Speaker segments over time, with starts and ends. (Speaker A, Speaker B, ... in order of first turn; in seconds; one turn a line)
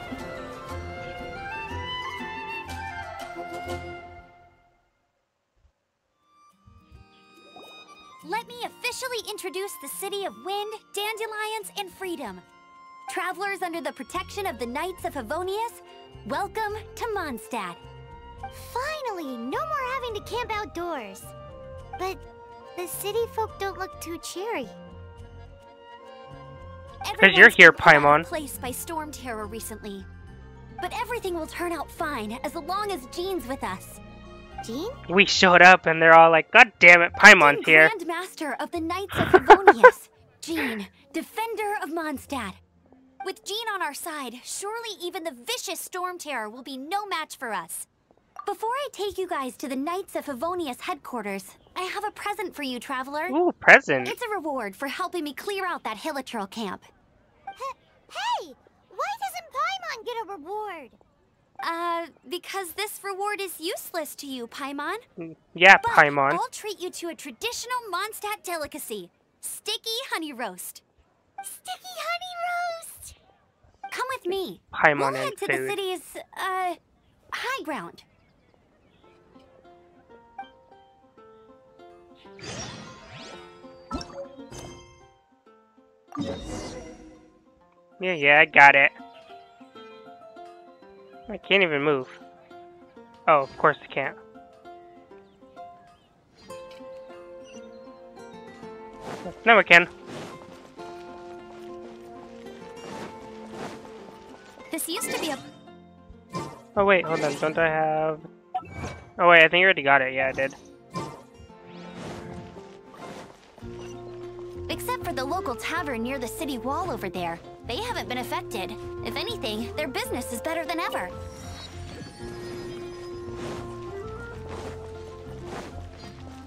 Speaker A: 8.2-12.4
Speaker A: 13.1-17.8
Speaker B: 18.5-21.3
Speaker B: 22.0-22.2
Speaker B: 22.7-24.8
Speaker A: 27.0-30.1
Speaker C: 27.2-28.2
Speaker A: 30.8-34.0
Speaker B: 34.6-35.0
Speaker C: 35.1-37.9
Speaker A: 37.4-42.6
Speaker C: 39.3-39.6
Speaker A: 43.2-47.9
Speaker A: 48.4-53.4
Speaker C: 53.3-54.1
Speaker A: 54.0-56.9
Speaker B: 57.5-61.0
Speaker A: 61.6-65.0
Speaker C: 65.2-66.4
Speaker A: 65.8-70.8
Speaker B: 71.4-73.1
Speaker A: 73.9-76.8
Speaker C: 74.7-75.8
Speaker A: 77.3-78.0
Speaker C: 88.0-88.9
Speaker C: 91.3-92.2
Speaker C: 93.3-94.2
Speaker C: 99.3-99.9
Speaker A: 104.7-105.4
Speaker C: 106.8-108.2
Speaker C: 109.2-110.6
Speaker A: 114.7-121.1